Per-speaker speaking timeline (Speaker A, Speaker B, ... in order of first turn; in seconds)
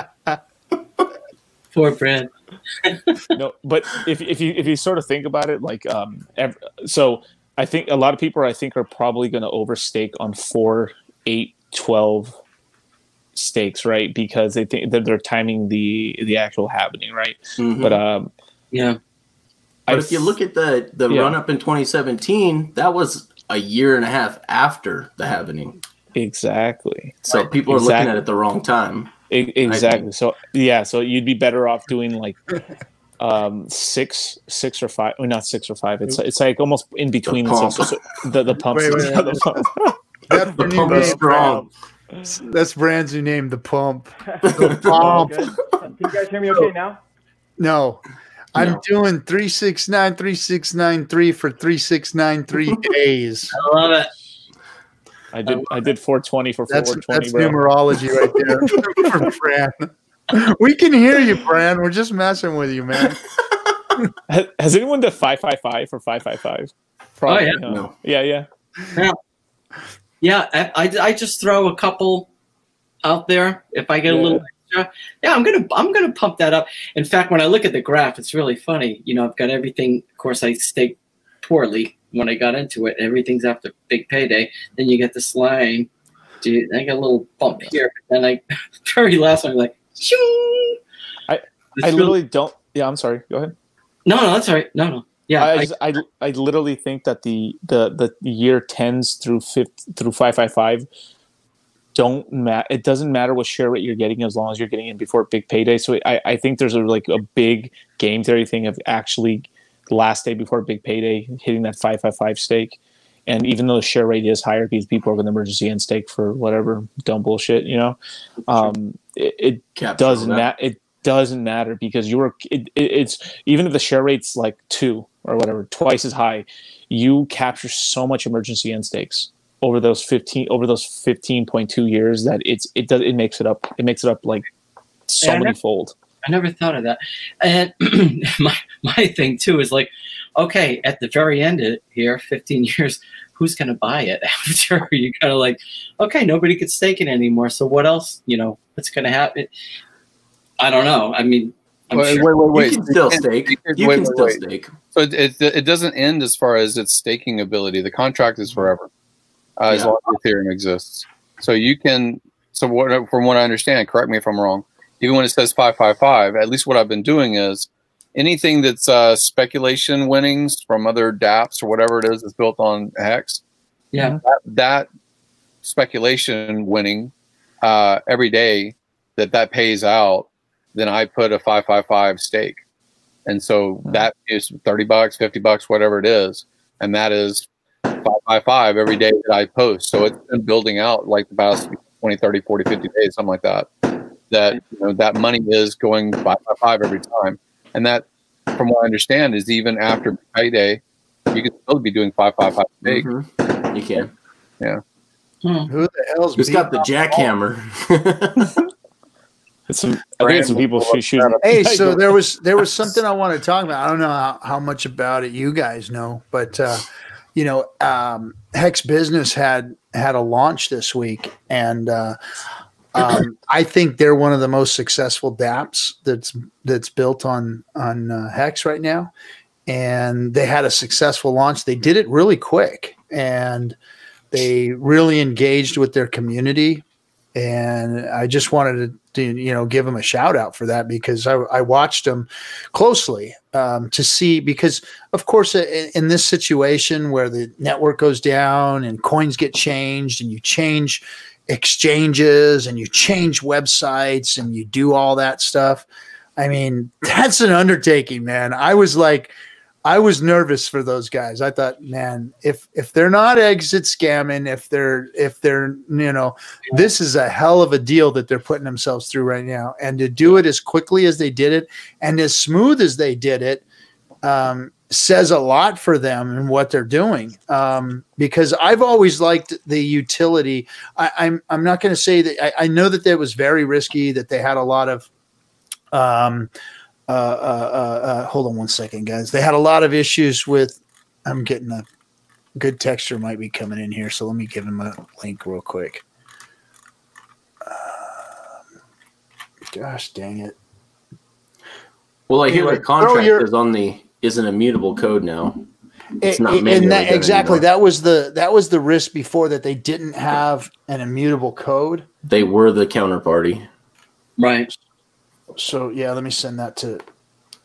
Speaker A: 1.7-2.3, 2.8-3.2, 18.7-19.0, 53.5-54.1, 55.5-55.9, 67.3-67.6, 70.2-72.3, 73.0-85.9, 86.4-90.8, 91.8-92.2, 94.0-95.7, 135.2-135.5, 136.2-149.5, 150.6-152.3, 173.9-174.2, 205.4-205.7, 314.4-314.7
Speaker B: 3.4-12.3, 13.3-18.3, 19.9-20.3, 21.1-21.4, 26.1-28.2, 29.3-32.6, 33.2-42.4, 55.3-57.6, 58.2-59.2, 64.3-68.5, 74.1-74.4, 91.3-93.5, 95.4-100.9, 101.9-134.4, 135.1-135.9, 209.7-212.0
Speaker C: 17.6-18.0, 19.9-25.7, 27.2-30.1, 37.2-38.0, 40.6-41.6, 44.4-45.3, 67.7-67.9, 119.8-120.5, 152.5-154.7, 202.8-204.1, 206.4-208.6, 302.3-305.6, 306.2-307.6, 312.2-313.7
Speaker D: 38.7-39.6, 40.3-41.6, 42.3-45.3, 47.6-48.0, 48.5-53.5, 56.7-63.2, 205.7-207.3, 211.4-222.2, 222.9-229.1, 229.7-233.8, 234.3-236.8, 237.3-255.8, 256.4-259.3, 259.8-273.6, 274.2-285.1, 285.9-286.5, 287.1-291.9, 292.6-296.0, 297.6-298.4, 299.7-300.6, 302.5-303.5, 306.2-312.1, 315.6-317.0
Speaker E: 44.3-47.0
Speaker F: 151.9-154.4, 154.9-158.9, 159.6-173.4, 174.2-174.9, 175.6-182.6, 183.2-187.5, 188.0-193.7, 194.3-203.1, 210.2-211.4